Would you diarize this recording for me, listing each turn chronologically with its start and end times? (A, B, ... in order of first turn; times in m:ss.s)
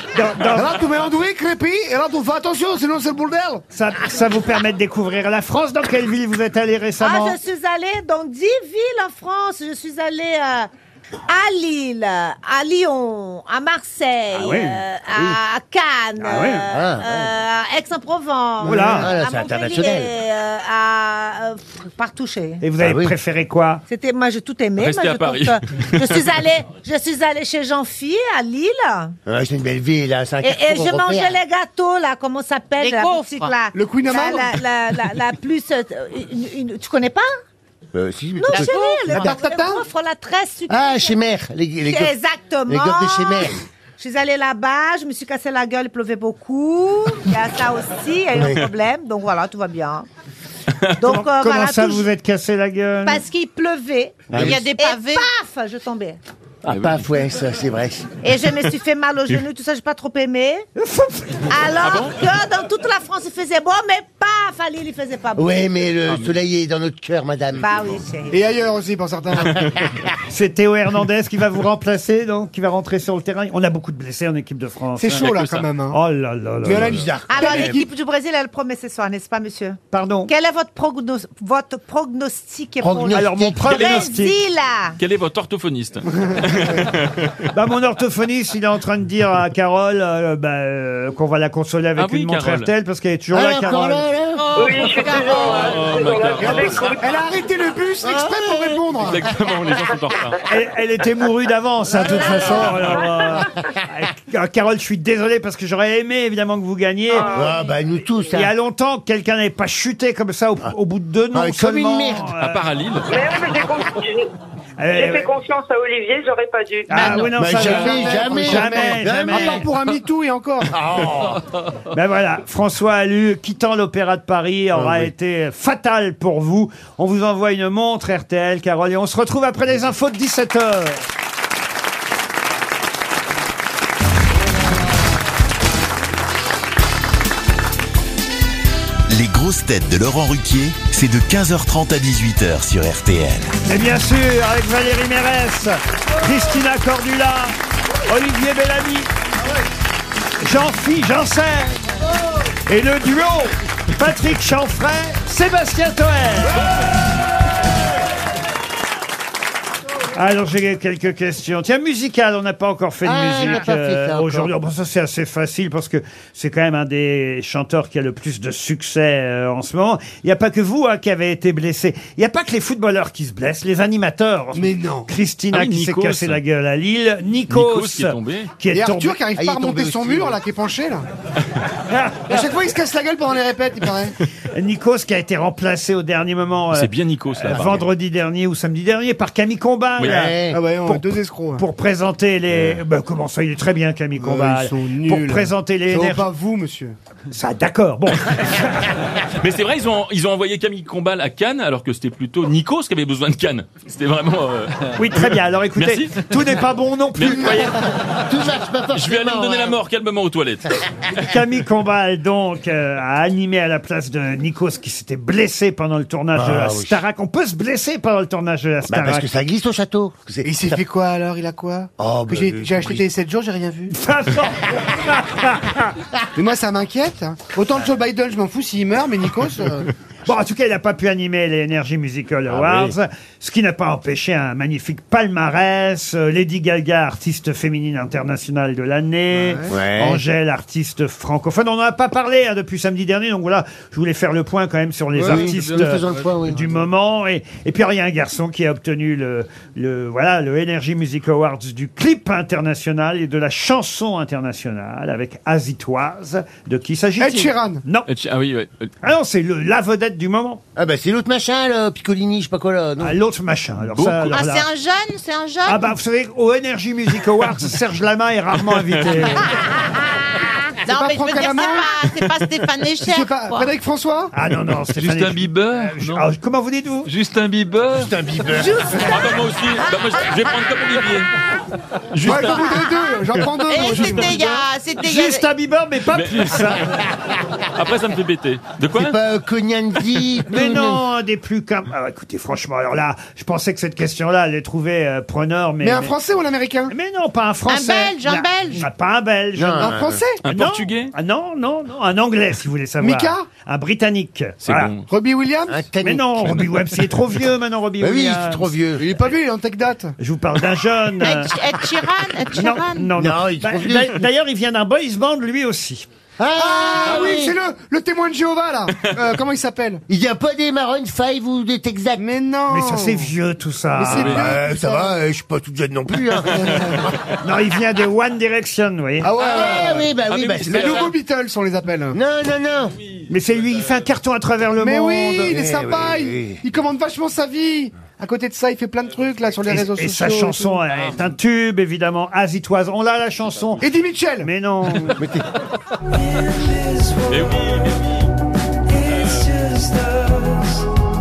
0:00.1-0:00.7 A
0:00.5-0:03.6 B
0:03.7-0:07.4 A
0:07.0-0:10.7 C
0:11.3-0:22.6 C
0:14.3-0:14.8 A
0:15.1-0:15.4 D
0:16.2-0:16.7 A
0:16.7-0:17.3 D
0:18.6-0:20.1 D
0:18.6-0:19.1 A
0:22.6-0:23.8 A
0:22.8-0:23.1 D
0:23.9-0:29.2 C
0:24.8-0:26.2 E
0:29.2-0:31.4 D
0:30.4-0:37.3 C
0:32.8-0:33.6 F
0:33.7-0:34.5 B
0:37.9-0:39.2 D
0:38.4-0:41.2 C
0:38.5-0:39.3 F
0:39.1-0:39.8 B
0:40.7-0:42.1 D
0:41.9-0:50.0 C
0:42.7-0:43.6 D
0:48.3-0:48.6 D
0:51.0-0:52.1 C
0:51.0-0:53.2 A
0:53.0-0:56.2 C
0:54.3-0:54.6 D
0:54.3-0:55.3 F
0:56.6-0:58.1 D
0:56.7-0:57.0 E
0:58.2-1:00.7 C
1:00.8-1:01.5 A
1:01.5-1:05.7 C
1:01.8-1:02.1 E
1:05.4-1:07.9 D
1:06.1-1:06.3 E
1:07.6-1:08.4 C
1:08.3-1:09.6 B
1:10.3-1:15.3 A
1:15.0-1:16.0 B
1:15.1-1:15.7 E
1:15.9-1:17.0 A
1:16.6-1:17.8 B
1:16.6-1:17.8 D
1:17.3-1:25.0 C
1:19.9-1:20.3 A
1:22.8-1:23.9 D
1:23.1-1:24.4 A
1:23.7-1:24.1 E
1:25.0-1:27.4 E
1:27.5-1:34.1 A
1:32.0-1:32.7 E
1:33.3-1:34.5 D
1:34.3-1:35.8 F
1:34.6-1:37.0 G
1:35.4-1:36.9 E
1:36.4-1:39.2 B
1:38.0-1:38.8 D
1:39.0-1:40.4 E
1:40.5-1:47.3 A
1:42.2-1:42.6 D
1:47.1-1:47.6 G
1:47.3-1:48.5 D
1:48.3-1:52.6 A
1:51.3-1:52.3 D
1:52.4-1:53.1 E
1:53.1-1:54.3 G
1:54.8-1:55.3 A
1:54.9-1:57.0 G
1:56.9-1:59.7 A
1:56.9-1:57.5 F
1:57.3-1:59.7 D
1:57.6-2:00.7 B
2:00.7-2:01.4 D
2:01.9-2:11.0 A
2:04.7-2:05.1 D
2:19.1-2:23.5 H
2:23.6-2:27.6 A
2:28.1-2:29.1 A
2:30.4-2:31.9 A
2:32.7-2:36.6 A
2:40.1-2:59.2 A
2:43.0-2:44.5 D
2:54.5-2:55.1 B
2:55.5-2:56.4 E
2:57.5-2:58.6 E
2:58.7-3:01.0 B
2:59.4-3:00.4 D
3:01.9-3:02.2 A
3:02.3-3:04.1 B
3:04.5-3:16.3 A
3:06.7-3:07.9 E
3:10.0-3:10.6 D
3:10.5-3:11.6 B
3:12.5-3:12.8 D
3:14.2-3:17.0 B
3:17.3-3:18.9 A
3:19.4-3:26.3 E
3:25.0-3:27.7 A
3:27.1-3:27.9 E
3:27.3-3:29.8 D
3:28.9-3:31.3 E
3:31.3-3:39.3 A
3:36.3-3:37.0 D
3:38.9-3:40.8 D
3:40.4-3:43.9 B
3:42.0-3:43.0 D
3:43.9-3:45.9 A
3:46.4-3:49.9 B
3:50.2-4:18.1 A
3:52.5-3:53.0 D
3:59.4-3:59.7 B
3:59.7-4:00.2 D
4:05.1-4:06.6 D
4:17.2-4:17.8 B
4:18.1-4:18.9 E
4:19.0-4:20.6 A
4:20.8-4:23.2 D
4:23.0-4:24.6 A
4:24.2-4:25.9 F
4:25.6-4:29.6 A
4:28.9-4:29.2 E
4:29.7-4:30.6 C
4:30.8-4:33.7 F
4:30.9-4:32.0 B
4:33.0-4:34.3 B
4:34.3-4:37.1 A
4:34.9-4:36.3 I
4:37.0-4:38.1 I
4:37.9-4:39.0 D
4:38.6-4:39.2 C
4:39.0-4:41.3 E
4:42.1-4:42.7 E
4:42.2-4:44.6 B
4:42.4-4:45.5 F
4:45.0-4:46.8 A
4:46.1-4:47.0 E
4:47.7-4:49.2 E
4:48.9-4:51.0 D
4:50.5-4:56.1 A
4:55.8-4:56.9 B
4:56.9-5:04.9 A
4:57.7-4:58.9 F
4:59.6-5:00.2 D
4:59.8-5:00.4 B
5:00.4-5:01.1 E
5:03.0-5:03.5 B
5:04.6-5:05.0 E
5:05.1-5:05.8 B
5:05.7-5:06.8 D
5:06.0-5:08.7 A
5:08.0-5:09.1 D
5:09.0-5:10.1 B
5:10.2-5:11.6 A
5:11.2-5:13.1 F
5:12.5-5:16.0 A
5:13.2-5:14.2 D
5:16.4-5:17.6 D
5:16.6-5:20.0 B
5:17.0-5:17.4 E
5:20.1-5:22.2 D
5:22.2-5:23.3 B
5:22.7-5:24.4 A
5:23.9-5:25.1 B
5:24.1-5:24.5 E
5:24.1-5:27.1 D
5:26.5-5:27.1 E
5:26.6-5:26.9 B
5:27.4-5:29.3 A
5:29.2-5:30.1 B
5:29.4-5:31.1 D
5:29.5-5:31.1 E
5:30.7-5:32.2 B
5:32.1-5:32.9 D
5:33.3-5:35.5 A
5:34.8-5:40.8 B
5:35.4-5:36.6 D
5:39.7-5:43.8 A
5:43.8-5:44.5 B
5:44.4-5:45.2 A
5:45.2-5:45.4 D
5:47.2-5:48.3 E
5:49.0-5:49.6 E